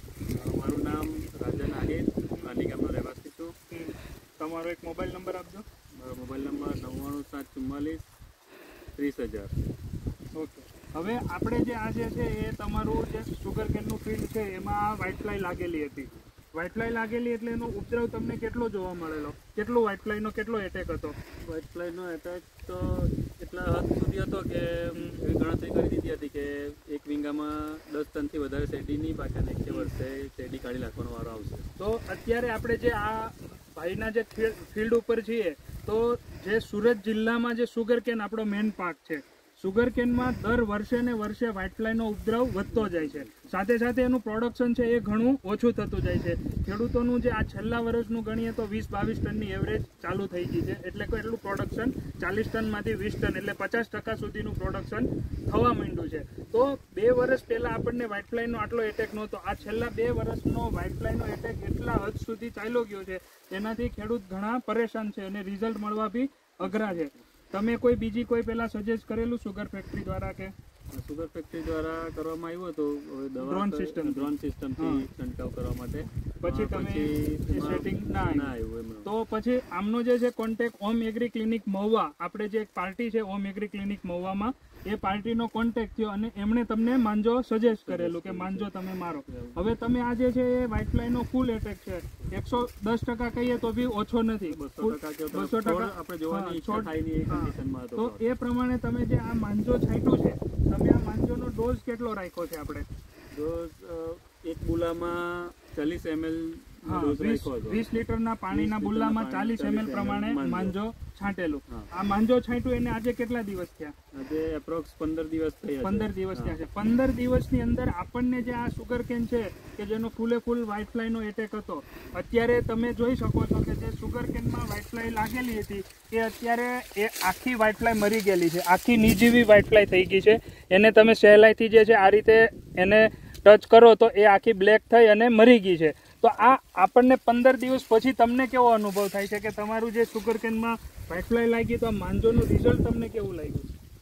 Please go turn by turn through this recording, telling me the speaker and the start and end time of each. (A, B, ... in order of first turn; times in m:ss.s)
0:00.3-0:03.5 A
0:03.7-0:05.6 B
0:06.0-0:08.0 A
0:09.0-0:09.5 A
0:10.4-0:21.2 B
0:21.5-0:31.7 A
0:24.9-0:25.2 B
0:31.8-1:10.5 B
0:42.7-0:43.5 A
1:06.6-1:07.2 A
1:10.9-1:19.1 A
1:13.4-1:15.0 B
1:16.4-1:18.5 B
1:19.0-1:42.8 B
1:27.6-1:28.7 A
1:29.3-1:29.6 A
1:34.5-1:38.2 A
1:43.3-1:47.8 A
1:46.8-1:53.9 B
1:48.5-1:50.8 A
1:54.1-1:56.6 A
1:55.8-2:23.7 B